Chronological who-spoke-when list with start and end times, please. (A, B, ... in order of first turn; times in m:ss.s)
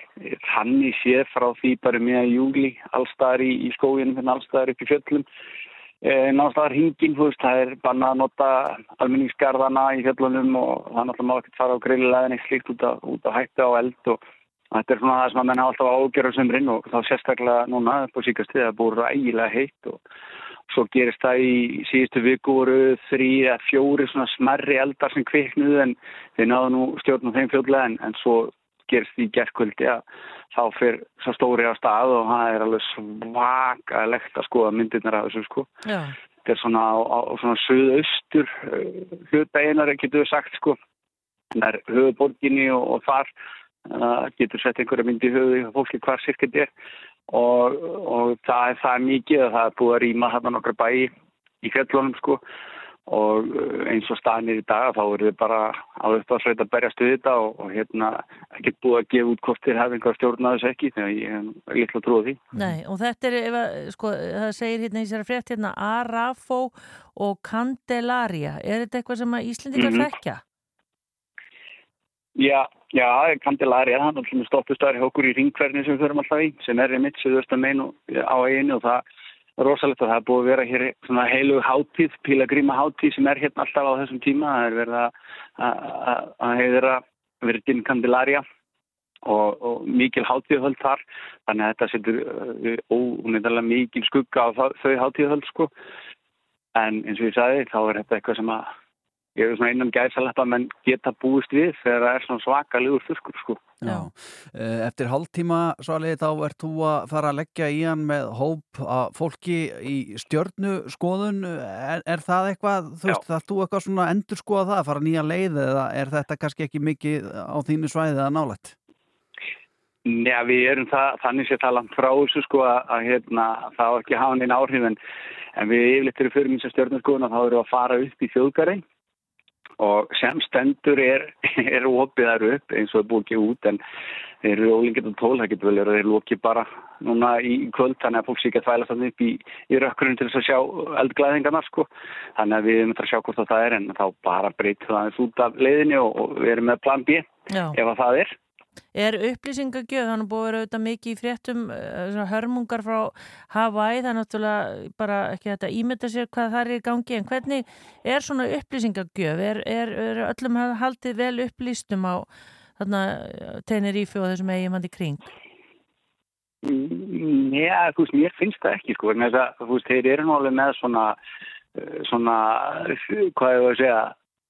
0:00.2-0:05.2 A
0:06.0-0:14.2 A
0:14.7-0:20.0 A
0:20.7-0:35.7 A
0:35.9-0:36.2 B
0:36.4-0:40.8 A
0:41.5-0:43.3 A
0:43.9-0:46.7 A
0:47.3-0:51.1 A
0:51.6-0:52.4 A
0:53.1-1:02.4 A
1:02.6-1:10.4 B
1:09.8-1:10.1 A
1:12.4-1:19.0 A
1:19.6-1:28.4 A
1:29.3-1:35.7 A
1:36.8-1:38.7 A
1:39.4-1:43.6 A
1:43.8-1:58.8 C
2:00.1-2:05.0 A
2:05.6-2:08.8 A
2:09.8-2:13.8 A
2:14.4-2:28.4 A
2:27.5-2:27.8 B
2:29.0-2:45.3 B
2:46.6-2:51.2 A
2:51.8-2:54.2 A